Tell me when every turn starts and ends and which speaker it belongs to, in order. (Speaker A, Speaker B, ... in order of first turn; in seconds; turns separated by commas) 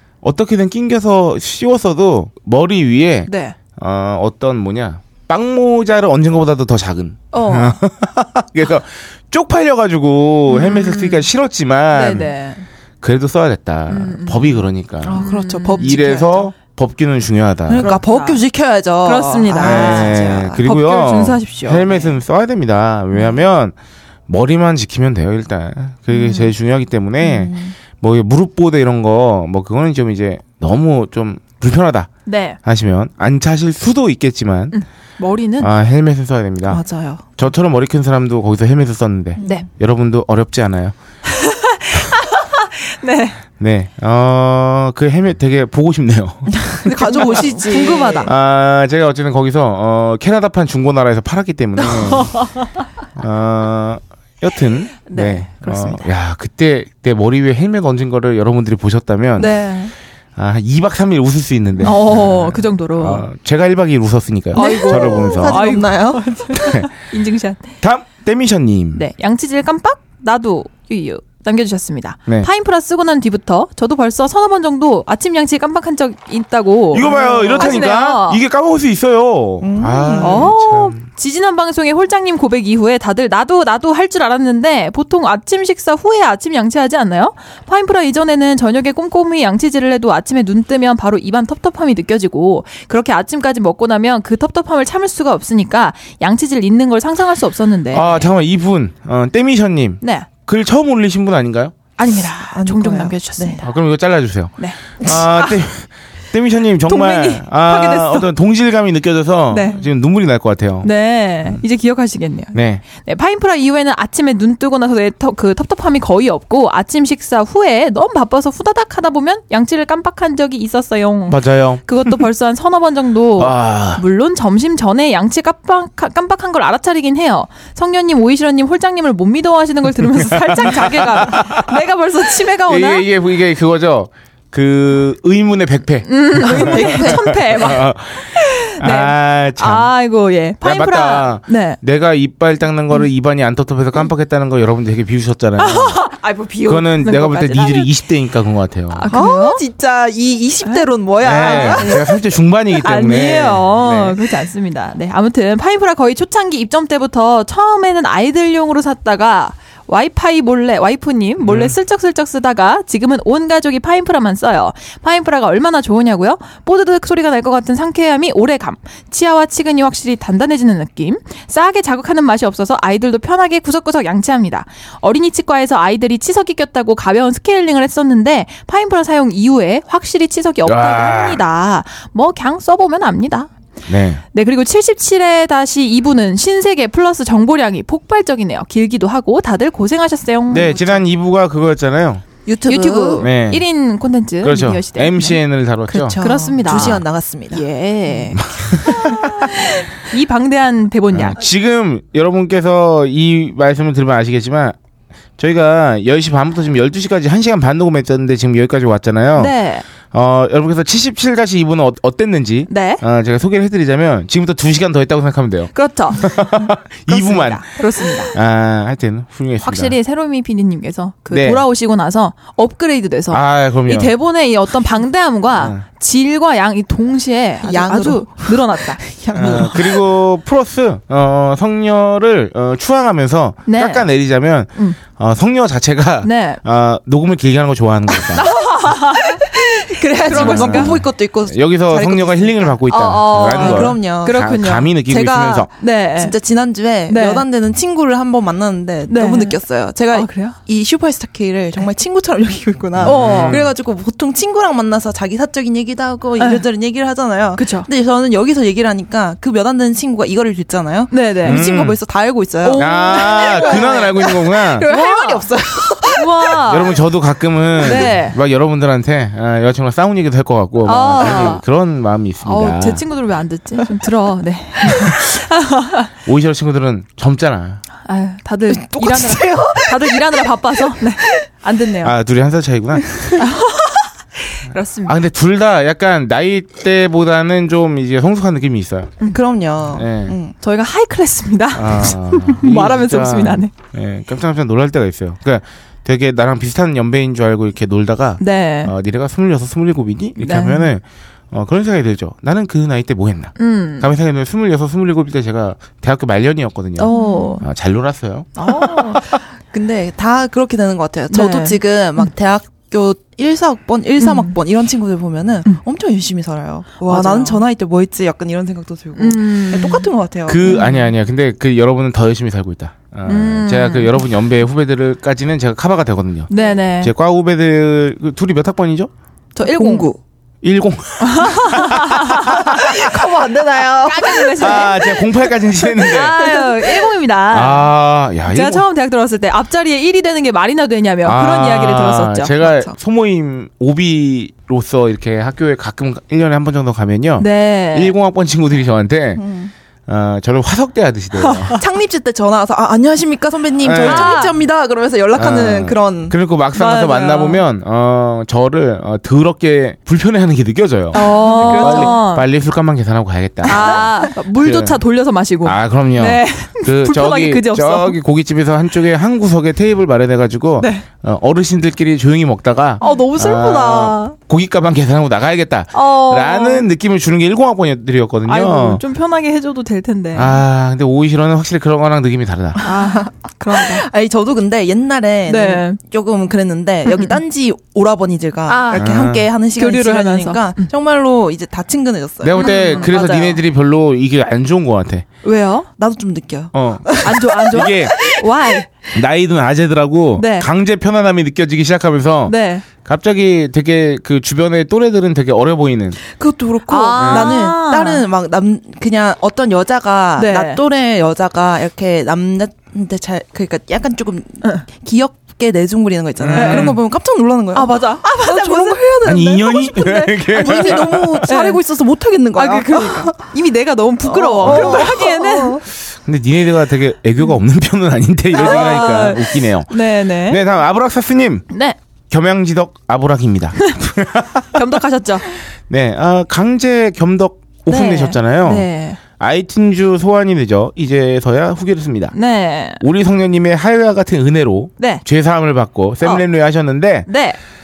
Speaker A: 0.2-12.3, Speaker B: 3.3-3.6, Speaker B: 7.3-7.8, Speaker B: 10.5-11.3, Speaker B: 11.9-12.7, Speaker A: 13.0-18.0, Speaker B: 13.9-16.0, Speaker C: 15.0-16.5, Speaker C: 17.7-20.6, Speaker B: 17.8-18.4, Speaker B: 19.0-22.2, Speaker A: 19.6-23.8, Speaker A: 24.3-32.1, Speaker B: 26.1-26.5, Speaker C: 27.2-27.7, Speaker B: 32.3-32.6, Speaker A: 32.6-34.8, Speaker B: 34.7-35.7, Speaker A: 35.6-36.8, Speaker C: 36.7-37.3, Speaker A: 37.4-41.0, Speaker C: 39.4-39.6, Speaker B: 39.4-39.7, Speaker B: 41.3-43.4, Speaker A: 43.6-46.6, Speaker C: 46.5-48.3, Speaker B: 46.9-48.3, Speaker A: 48.2-52.5, Speaker B: 51.8-52.6, Speaker A: 53.2-59.5, Speaker B: 55.1-56.1, Speaker B: 59.4-59.9, Speaker A: 60.4-65.8, Speaker B: 61.8-63.2, Speaker C: 64.5-66.5, Speaker B: 64.5-67.7, Speaker A: 66.5-66.9, Speaker A: 67.8-69.0, Speaker B: 68.9-78.4, Speaker A: 76.9-81.0, Speaker C: 77.0-77.8, Speaker C: 79.6-80.5, Speaker B: 80.2-98.3, Speaker A: 97.9-101.8, Speaker B: 100.0-100.3, Speaker B: 102.0-103.7, Speaker C: 102.5-103.6, Speaker A: 103.6-110.9, Speaker B: 104.6-105.6, Speaker B: 106.9-108.3, Speaker B: 109.5-109.8, Speaker B: 110.8-133.1, Speaker A: 112.5-112.8, Speaker A: 121.3-122.2, Speaker A: 123.4-124.0, Speaker A: 130.1-131.8, Speaker A: 132.4-139.9, Speaker B: 136.1-141.8, Speaker C: 136.4-137.4, Speaker A: 140.6-146.1, Speaker B: 145.6-147.9, Speaker A: 146.6-149.1, Speaker B: 148.9-149.6, Speaker C: 149.1-152.0, Speaker B: 150.7-152.1, Speaker A: 151.2-154.2, Speaker B: 152.8-183.5, Speaker A: 161.4-161.8, Speaker A: 180.7-181.4, Speaker A: 183.9-184.2, Speaker B: 184.3-191.0, Speaker A: 190.5-192.2, Speaker C: 192.5-193.3, Speaker B: 192.7-195.4, Speaker A: 193.2-193.7, Speaker A: 194.4-197.0, Speaker C: 195.9-198.2, Speaker B: 196.2-201.4, Speaker A: 198.4-199.4, Speaker A: 201.1-204.8, Speaker A: 205.4-209.6, Speaker B: 209.3-209.9, Speaker A: 210.1-220.0, Speaker B: 212.7-213.0, Speaker B: 215.7-216.4, Speaker B: 217.1-218.3, Speaker B: 219.6-229.7, Speaker A: 221.3-221.7, Speaker A: 223.3-224.1, Speaker A: 225.6-225.8, Speaker C: 227.6-230.0, Speaker A: 229.3-238.5, Speaker B: 233.7-234.1, Speaker B: 236.2-236.6, Speaker B: 238.3-241.0, Speaker C: 239.3-242.8, Speaker A: 240.3-245.7, Speaker B: 242.9-246.3, Speaker C: 243.3-244.4, Speaker C: 245.2-266.6, Speaker B: 247.1-247.4, Speaker B: 249.1-249.6, Speaker B: 250.1-250.6, Speaker A: 253.0-253.7, Speaker B: 253.0-253.7, Speaker B: 256.4-256.6, Speaker B: 257.6-257.9, Speaker B: 261.1-261.6, Speaker A: 261.4-262.0, Speaker B: 262.6-264.1, Speaker A: 262.8-264.9, Speaker B: 264.8-265.5, Speaker B: 266.1-266.9, Speaker A: 266.7-273.0, Speaker B: 267.8-268.4, Speaker B: 270.8-271.6, Speaker C: 271.2-271.5, Speaker B: 272.4-276.1, Speaker A: 276.3-277.8, Speaker B: 278.0-282.1, Speaker C: 278.7-281.4, Speaker A: 282.0-283.4, Speaker B: 283.4-285.2, Speaker A: 285.0-289.2, Speaker C: 289.3-290.6, Speaker A: 289.9-290.4, Speaker B: 290.6-293.7, Speaker A: 291.7-309.0, Speaker B: 298.4-298.9, Speaker B: 300.4-300.9, Speaker B: 303.6-304.1, Speaker B: 307.0-307.6, Speaker C: 307.1-307.5, Speaker B: 308.6-309.2, Speaker C: 309.3-320.6, Speaker B: 311.3-312.3, Speaker B: 314.2-314.6, Speaker B: 317.0-317.6, Speaker B: 319.2-320.1, Speaker A: 320.5-329.1, Speaker B: 320.6-321.1, Speaker B: 323.3-324.2, Speaker B: 326.5-327.1, Speaker C: 329.6-330.2, Speaker B: 329.6-330.1, Speaker A: 330.6-333.0, Speaker B: 331.2-333.1, Speaker C: 332.5-335.1, Speaker B: 334.1-337.9, Speaker A: 334.6-336.5, Speaker C: 336.5-337.1, Speaker A: 337.5-338.9, Speaker B: 338.5-342.5, Speaker A: 341.2-349.4, Speaker C: 342.6-342.9, Speaker B: 347.4-348.1, Speaker C: 349.4-349.7, Speaker A: 350.1-351.8, Speaker B: 351.4-351.8, Speaker C: 351.8-356.4, Speaker A: 353.8-354.4, Speaker B: 354.0-354.5, Speaker A: 355.4-365.0, Speaker B: 356.8-357.6, Speaker B: 361.1-362.5, Speaker C: 361.1-362.2, Speaker C: 363.7-364.2, Speaker B: 363.7-368.2, Speaker A: 365.6-379.0, Speaker B: 370.8-371.1, Speaker B: 373.0-374.4, Speaker B: 375.9-376.9, Speaker B: 378.5-380.6, Speaker A: 380.3-382.8, Speaker C: 382.8-393.2, Speaker B: 382.8-384.1, Speaker B: 385.5-386.0, Speaker B: 387.1-387.4, Speaker B: 388.7-389.2, Speaker A: 388.9-389.5, Speaker B: 389.8-390.9, Speaker A: 392.4-395.3, Speaker B: 392.6-393.6, Speaker B: 395.4-395.9, Speaker C: 396.0-398.5, Speaker A: 396.7-398.2, Speaker B: 397.2-398.9, Speaker A: 399.1-406.2, Speaker B: 400.4-400.7, Speaker B: 402.5-402.9, Speaker C: 406.3-423.4, Speaker B: 406.9-408.3, Speaker A: 407.2-407.6, Speaker B: 410.4-410.8, Speaker A: 416.4-417.0, Speaker B: 416.5-417.0, Speaker B: 417.7-421.8, Speaker A: 419.2-421.5, Speaker B: 422.6-425.8, Speaker C: 424.2-425.8, Speaker A: 424.6-425.2, Speaker A: 426.2-431.7, Speaker B: 428.5-430.6, Speaker B: 431.7-432.0, Speaker A: 432.3-434.8, Speaker B: 434.7-435.5, Speaker A: 435.9-438.9, Speaker B: 437.9-439.2, Speaker A: 439.4-442.4, Speaker B: 442.3-443.0, Speaker A: 443.0-447.3, Speaker B: 447.3-447.6